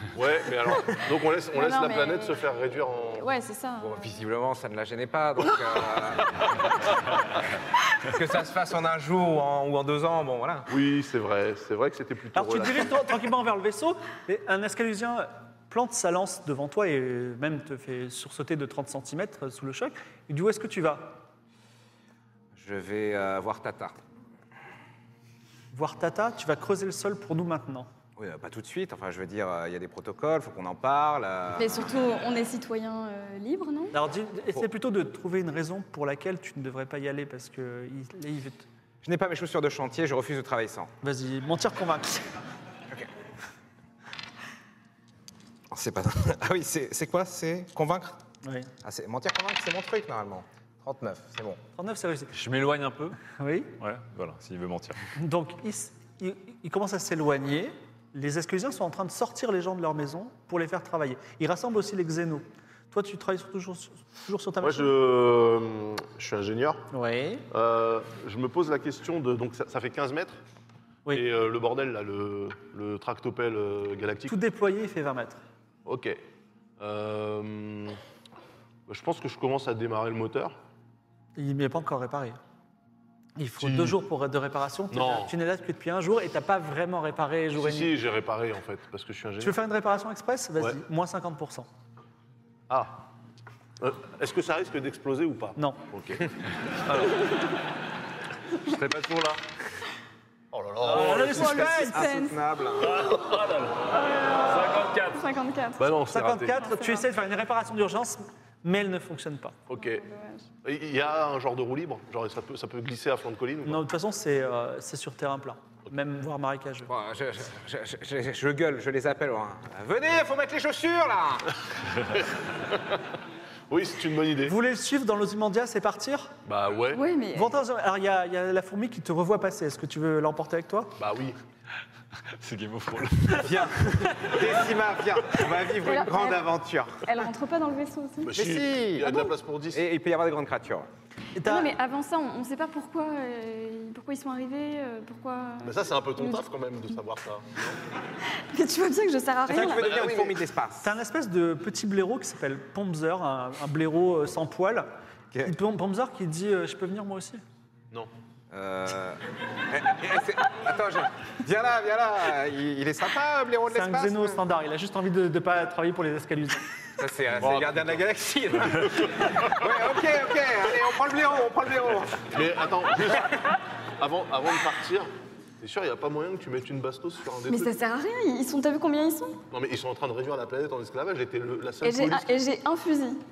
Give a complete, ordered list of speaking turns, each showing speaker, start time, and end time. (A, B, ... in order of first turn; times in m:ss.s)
0:00.1-0:03.3 A
0:01.6-0:02.4 B
0:03.2-0:04.1 B
0:03.8-0:06.4 C
0:08.0-0:10.7 C
0:10.7-0:13.0 A
0:12.4-0:21.2 D
0:22.5-0:24.0 C
0:25.7-0:27.9 D
0:28.2-0:31.9 C
0:31.6-0:34.0 B
0:33.9-0:38.7 D
0:39.0-0:40.9 C
0:41.0-0:42.3 D
0:45.7-0:48.2 C
0:48.4-0:48.7 D
0:48.8-0:51.6 C
0:51.8-0:52.3 D
0:52.3-0:53.2 E
0:53.2-0:53.8 D
0:53.8-0:55.1 E
0:55.2-1:04.9 D
1:04.6-1:06.9 A
1:06.9-1:07.5 D
1:07.5-1:10.4 A
1:11.1-1:14.4 A
1:14.3-1:15.4 D
1:15.9-1:16.2 A
1:16.8-1:18.0 A
1:18.9-1:20.6 A
1:21.4-1:22.4 D
1:23.4-1:27.9 D
1:23.6-1:24.0 A
1:24.9-1:25.3 A
1:27.6-1:29.6 A
1:29.4-1:31.7 D
1:32.7-1:33.0 A
1:33.8-1:36.3 A
1:35.6-1:35.8 D
1:36.9-1:37.1 A
1:38.6-1:39.4 E
1:40.5-1:41.6 A
1:40.8-1:42.1 D
1:41.0-1:43.1 C
1:41.1-1:42.4 B
1:42.8-1:45.2 E
1:43.9-1:45.9 B
1:45.8-1:46.7 A
1:46.1-1:49.6 D
1:46.5-1:47.0 B
1:49.7-1:50.0 A
1:49.8-1:50.5 B
1:50.6-1:53.8 A
1:53.6-1:56.9 D
1:56.9-2:01.5 C
2:02.1-2:03.0 A
2:03.7-2:04.6 A
2:04.5-2:06.3 D
2:06.5-2:07.0 A
2:06.9-2:07.5 B
2:07.3-2:11.0 D
2:11.0-2:11.4 A
2:12.4-2:14.2 E
2:13.4-2:17.1 C
2:15.8-2:16.5 B
2:17.0-2:18.4 B
2:18.2-2:19.8 A
2:18.3-2:20.9 C
2:21.4-2:21.7 D
2:21.4-2:26.4 B
2:25.6-2:27.8 A
2:28.3-2:29.9 B
2:29.5-2:30.9 C
2:29.7-2:30.4 A
2:30.8-2:37.4 D
2:38.5-2:44.4 C
2:43.7-2:46.7 D
2:47.0-2:52.3 C
2:47.4-2:48.0 A
2:52.3-2:57.7 A
2:57.5-2:59.4 B
2:59.5-3:02.4 A
3:01.8-3:03.2 B